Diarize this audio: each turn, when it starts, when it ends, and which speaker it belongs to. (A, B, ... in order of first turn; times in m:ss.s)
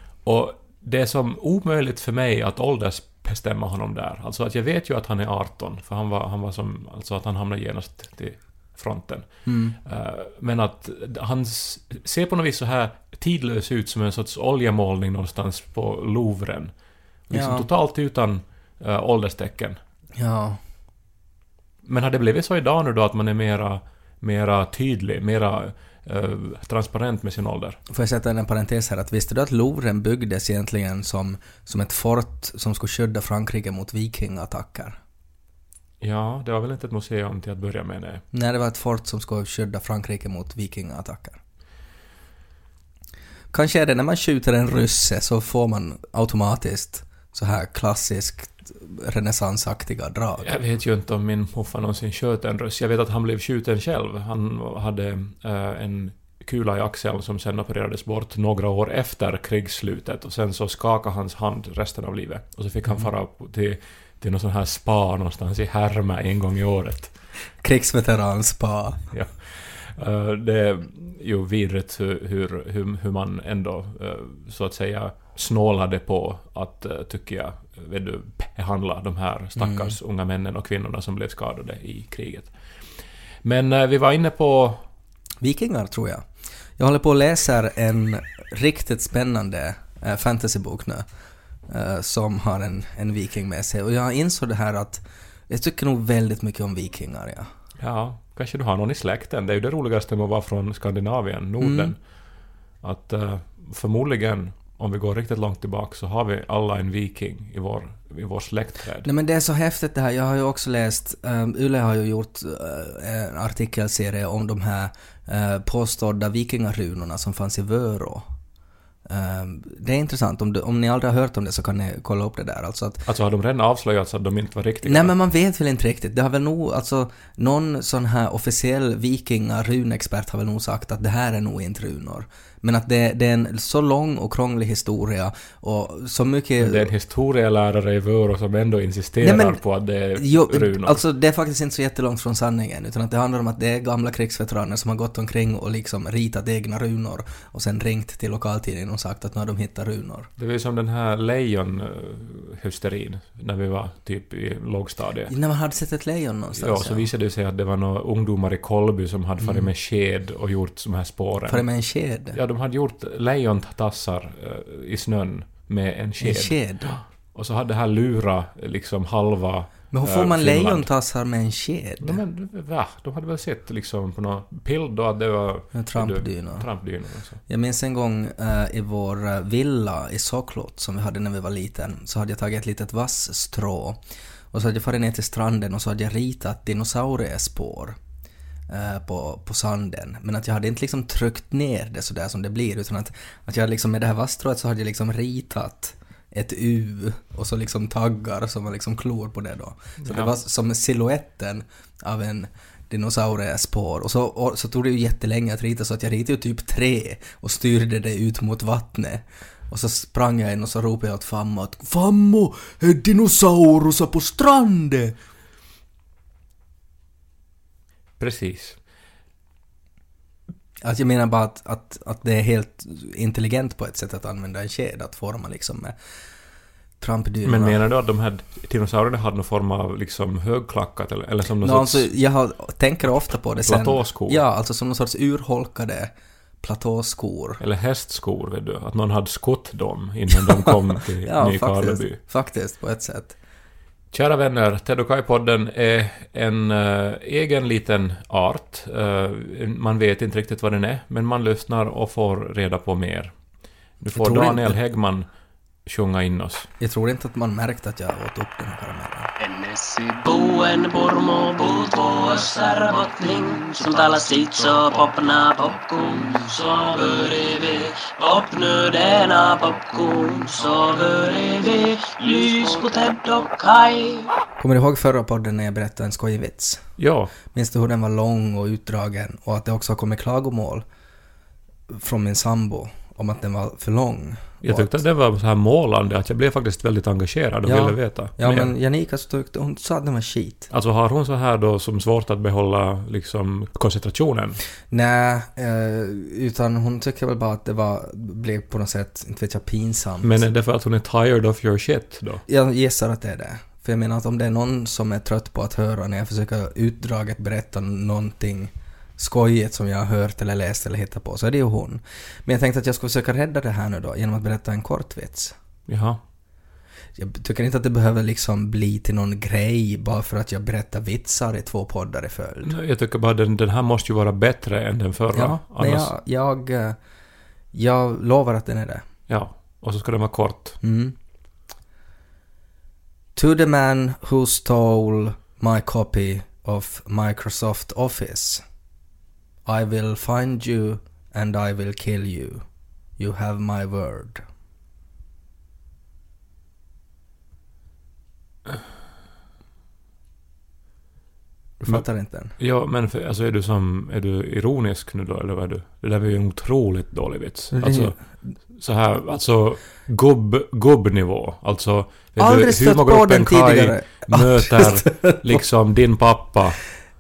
0:00.2-0:09.3 A
0:09.5-0:09.8 B
0:09.8-0:16.7 A
0:17.3-0:17.7 B
0:17.3-0:19.8 A
0:20.2-0:20.6 B
0:21.8-0:27.8 A
0:27.9-0:35.0 B
0:36.0-0:38.2 A
0:38.3-0:41.4 B
0:43.5-0:50.5 B
0:50.4-1:07.1 A
1:07.6-1:09.1 B
1:09.1-1:22.5 A
1:19.6-1:20.0 B
1:23.4-1:24.8 A
1:25.4-1:26.2 B
1:26.8-1:31.0 B
1:31.7-1:37.5 B
1:37.8-1:42.0 A
1:41.6-1:42.0 B
1:42.8-1:49.1 A
1:49.0-1:58.2 B
1:59.1-2:03.1 B
2:03.1-2:05.1 A
2:04.8-2:16.9 B
2:16.6-2:21.0 A
2:19.2-2:19.6 B
2:20.2-2:30.3 B
2:30.4-2:35.3 A
2:35.3-2:37.1 B
2:36.6-2:41.6 A
2:41.5-2:42.4 B
2:42.3-2:46.6 A
2:46.2-2:47.0 B
2:47.3-2:50.9 A
2:49.9-2:52.2 B
2:52.0-2:57.4 A
2:55.7-2:56.7 B
2:57.5-3:04.0 B
3:04.5-3:08.0 B
3:08.7-3:35.2 B
3:20.0-3:20.3 A
3:38.2-3:38.8 A
3:40.8-3:46.0 B
3:47.0-3:47.8 B
3:47.4-3:52.1 A
3:51.6-3:56.1 B
3:53.6-3:54.4 A
3:56.6-3:57.6 B
3:57.6-4:02.2 A
4:00.5-4:03.4 B
4:04.1-4:13.3 A
4:14.0-4:15.3 A
4:14.1-4:14.8 B
4:15.9-4:16.7 A
4:16.8-4:19.3 B
4:19.4-4:34.3 C
4:34.6-4:36.8 B
4:37.0-4:37.3 A
4:37.5-4:40.8 B
4:41.9-4:45.0 B
4:44.6-4:48.7 A
4:47.7-4:50.7 B
4:50.7-4:54.6 A
4:54.9-5:00.4 B
5:00.2-5:02.4 A
5:02.5-5:15.6 B
5:15.9-5:16.2 A
5:17.2-5:22.8 B
5:22.6-5:26.1 A
5:25.3-5:27.0 B
5:27.7-5:29.0 B
5:29.3-5:30.8 A
5:30.8-5:31.2 B
5:33.4-5:38.6 B
5:39.7-5:42.6 B
5:43.2-5:44.4 B
5:51.8-5:52.6 B
5:52.6-5:58.2 A
5:57.7-5:58.2 B
5:58.8-6:06.8 A
6:02.4-6:05.6 B